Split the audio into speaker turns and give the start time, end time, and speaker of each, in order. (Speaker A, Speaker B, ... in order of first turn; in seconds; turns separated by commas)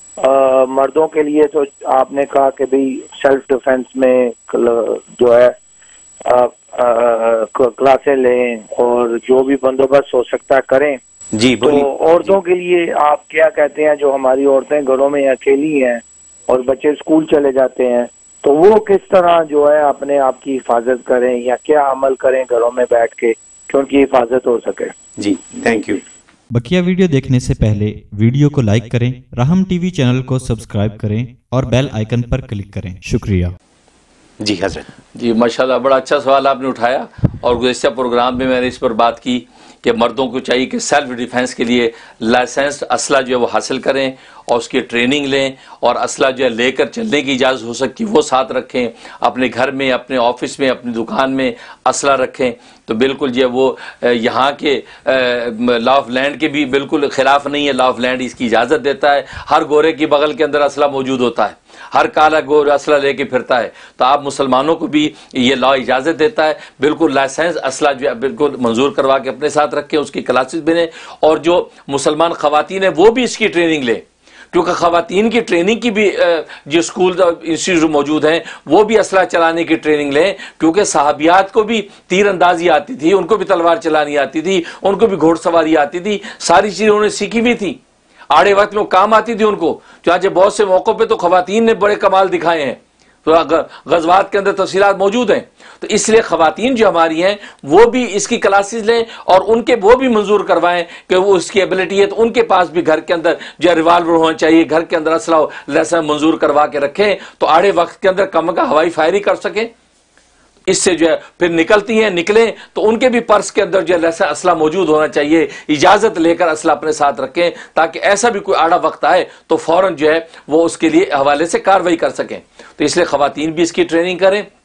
Speaker A: 0.2-5.5, Speaker A: 6.3-11.0, Speaker B: 11.3-11.9, Speaker A: 11.6-24.9, Speaker B: 25.2-26.0, Speaker C: 26.5-33.5, Speaker B: 34.4-34.9, Speaker D: 35.1-87.8, Speaker D: 88.3-109.7, Speaker D: 110.7-124.5